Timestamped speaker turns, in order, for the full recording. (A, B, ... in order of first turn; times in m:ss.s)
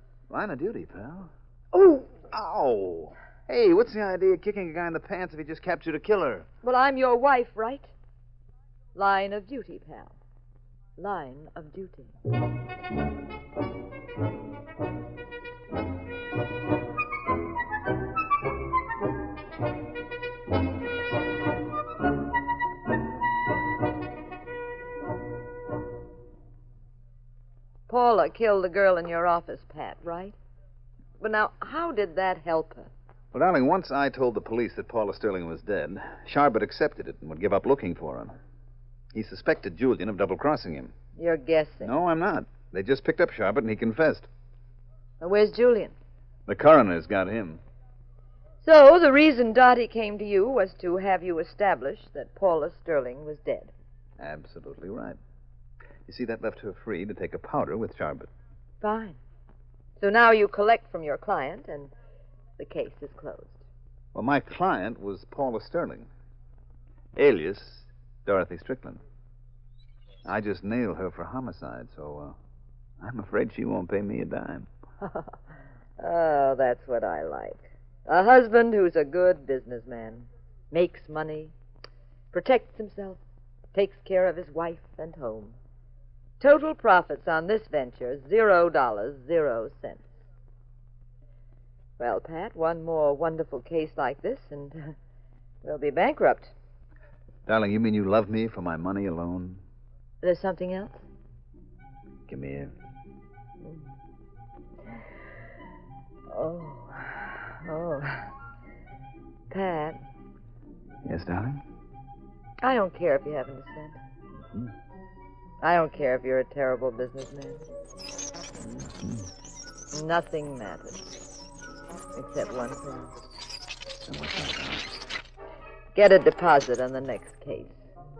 0:00.3-0:06.5 A
0:06.6-0:07.9 B
0:08.9-0:10.1 B
0:11.0-0:12.2 B
0:27.9-0:30.4 B
0:31.2-0:32.9 B
0:33.3-0:38.4 A
0:39.1-0:40.9 A
0:41.2-0:41.9 B
0:41.8-0:44.3 A
0:45.2-0:45.9 B
0:46.5-0:47.6 A
0:48.6-0:53.7 B
0:54.2-0:55.2 A
0:56.0-0:58.3 A
0:58.8-0:59.2 B
1:00.0-1:01.9 B
1:02.6-1:03.6 B
1:04.1-1:06.1 A
1:07.1-1:09.0 A
1:10.2-1:12.4 A
1:13.0-1:14.7 A
1:15.0-1:15.4 B
1:16.0-1:21.5 B
1:22.3-1:23.2 B
1:23.7-1:25.6 B
1:26.4-1:30.1 B
1:32.0-1:35.0 B
1:35.6-1:36.5 B
1:37.4-1:39.6 A
1:40.2-1:41.0 B
1:42.3-1:42.7 A
1:46.3-1:48.3 B
1:49.5-1:50.0 B
1:51.0-1:51.6 A
1:52.6-1:54.0 B
1:54.4-1:54.7 A
1:55.6-1:57.6 B
1:58.6-1:59.3 A
1:59.9-2:01.0 B
2:02.1-2:03.1 B
2:04.0-2:04.9 A
2:05.9-2:07.8 B